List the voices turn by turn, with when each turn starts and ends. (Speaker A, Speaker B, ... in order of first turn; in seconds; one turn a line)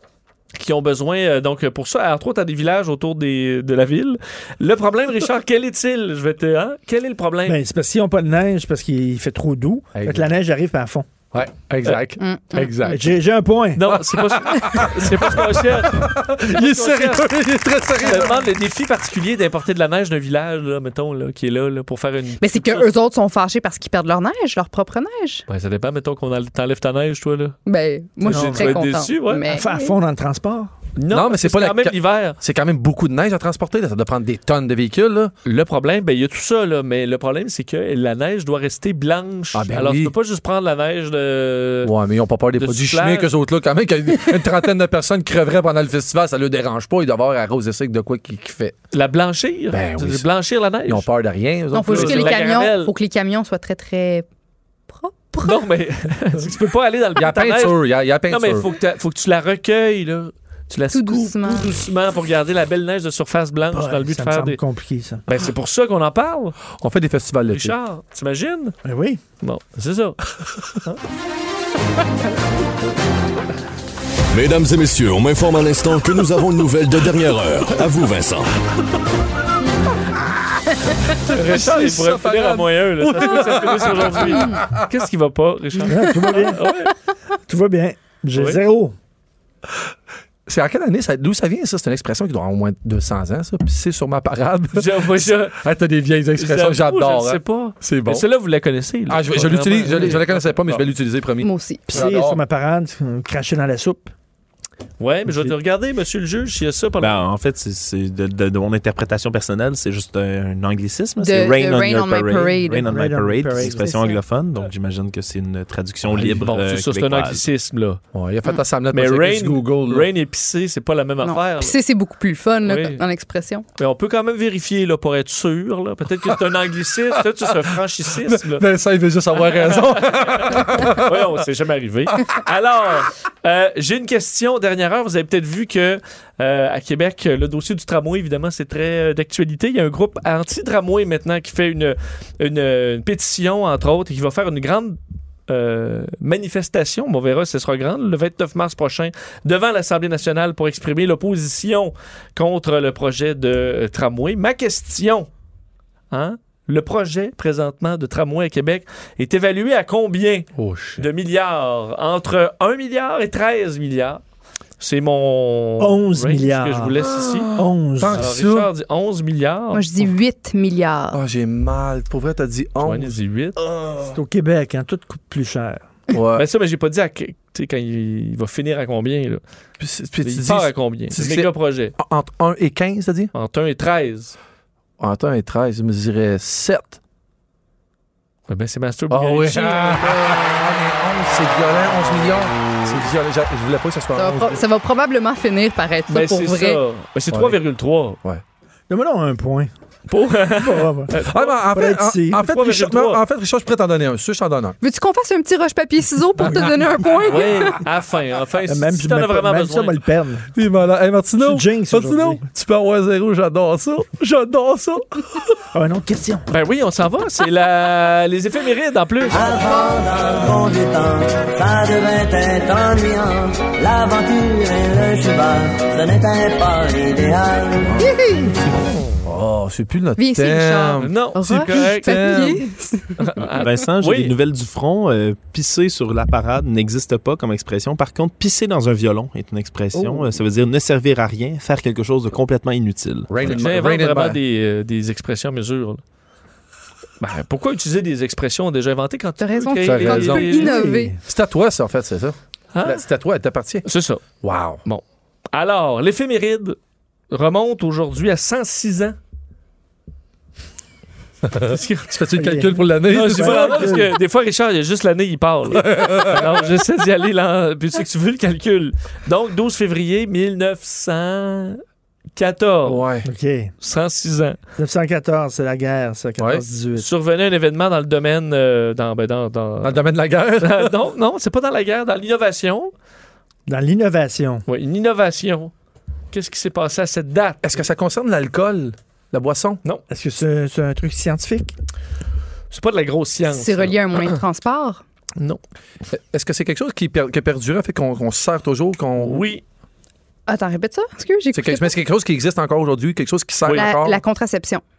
Speaker A: 0.6-7.6
Speaker B: 7.5-11.1
Speaker C: 9.9-10.3
Speaker C: 11.3-13.1
Speaker D: 12.2-13.0
Speaker B: 12.9-14.0
Speaker A: 13.8-17.3
Speaker C: 14.1-18.4
Speaker A: 18.0-22.9
Speaker D: 22.4-25.4
Speaker A: 25.5-27.6
Speaker D: 27.7-29.9
Speaker A: 28.2-29.5
Speaker B: 28.3-28.8
Speaker B: 29.5-30.7
Speaker A: 31.0-32.4
Speaker C: 31.1-35.3
Speaker A: 35.5-41.9
Speaker C: 39.5-40.1
Speaker C: 41.8-48.8
Speaker A: 42.6-43.3
Speaker A: 48.9-51.1
Speaker C: 49.7-50.3
Speaker C: 50.9-52.4
Speaker D: 51.7-54.3
Speaker A: 51.9-52.9
Speaker D: 54.9-55.6
Speaker A: 55.4-64.6
Speaker C: 57.2-58.7
Speaker D: 60.9-61.7
Speaker B: 63.7-65.2
Speaker A: 65.3-66.6
Speaker C: 66.8-67.8
Speaker A: 67.5-68.8
Speaker B: 68.8-69.2
Speaker A: 69.4-70.2
Speaker E: 74.3-78.5
Speaker C: 81.2-84.8
Speaker A: 81.3-86.9
Speaker D: 84.2-84.6
Speaker B: 85.8-86.6
Speaker B: 87.5-89.0
Speaker A: 88.3-88.6
Speaker C: 90.5-98.3
Speaker A: 94.8-95.6
Speaker A: 96.4-100.9
Speaker C: 99.1-102.4
Speaker D: 101.4-102.1
Speaker B: 101.9-104.1
Speaker A: 105.0-107.2
Speaker B: 105.3-105.5
Speaker F: 107.0-117.4
Speaker D: 111.2-112.9
Speaker B: 112.9-114.0
Speaker D: 113.6-114.2
Speaker A: 116.1-118.0
Speaker C: 118.1-120.1
Speaker A: 118.9-121.8
Speaker D: 121.2-123.6
Speaker A: 122.7-123.0
Speaker A: 123.8-128.7
Speaker C: 127.1-131.4
Speaker A: 129.4-155.3
Speaker A: 156.1-164.2
Speaker C: 160.6-161.1
Speaker A: 164.8-167.5
Speaker B: 165.8-166.9
Speaker C: 167.0-168.7
Speaker B: 167.5-168.2
Speaker A: 168.1-170.1
Speaker D: 169.7-171.2
Speaker C: 171.1-173.1
Speaker A: 172.8-173.6
Speaker C: 173.7-174.1
Speaker B: 174.1-175.9
Speaker C: 176.1-176.5
Speaker A: 176.4-179.4
Speaker C: 179.8-183.3
Speaker A: 180.2-181.9
Speaker A: 183.3-184.4
Speaker C: 185.0-187.0
Speaker A: 188.5-190.4
Speaker C: 189.1-194.6
Speaker D: 194.2-196.8
Speaker A: 196.1-198.2
Speaker C: 197.3-197.6
Speaker B: 198.9-199.7
Speaker A: 200.1-201.6
Speaker B: 200.5-201.1
Speaker C: 201.3-204.8
Speaker B: 201.7-202.4
Speaker A: 202.4-203.2
Speaker D: 204.8-207.8
Speaker B: 206.4-207.4
Speaker A: 207.2-210.0
Speaker B: 208.7-210.5
Speaker C: 210.6-215.6
Speaker B: 211.4-212.4
Speaker B: 215.7-216.5
Speaker A: 216.5-219.4
Speaker G: 219.3-228.0
Speaker C: 227.8-228.1
Speaker D: 228.0-228.3
Speaker B: 228.2-228.5
Speaker C: 228.7-232.7
Speaker D: 230.2-233.2
Speaker A: 231.0-232.6
Speaker A: 233.2-234.3
Speaker F: 233.5-243.3
Speaker B: 240.0-240.3
Speaker C: 243.3-244.4
Speaker A: 243.5-246.0
Speaker A: 247.2-250.8
Speaker D: 249.4-251.2
Speaker C: 249.8-250.6
Speaker B: 250.5-251.2
Speaker C: 251.2-253.9
Speaker A: 252.7-253.0
Speaker A: 253.8-254.2
Speaker C: 254.4-254.8
Speaker A: 254.8-256.8
Speaker A: 257.3-259.2
Speaker C: 261.4-264.0
Speaker A: 261.7-262.2
Speaker B: 262.4-264.1
Speaker A: 263.1-271.8
Speaker C: 265.7-266.6
Speaker A: 272.4-273.0
Speaker C: 272.9-273.3
Speaker B: 273.2-273.7
Speaker A: 273.8-274.6
Speaker B: 274.8-277.1
Speaker C: 276.4-276.7
Speaker A: 277.0-280.0
Speaker C: 279.8-280.9
Speaker A: 280.6-282.9
Speaker B: 283.7-284.6
Speaker A: 284.7-285.7
Speaker A: 286.3-287.8
Speaker C: 287.6-289.8
Speaker B: 290.1-291.7
Speaker A: 292.7-294.4
Speaker D: 293.5-295.0
Speaker C: 296.1-299.5
Speaker A: 299.2-299.6
Speaker D: 300.5-301.9
Speaker C: 301.5-304.2
Speaker D: 303.7-304.8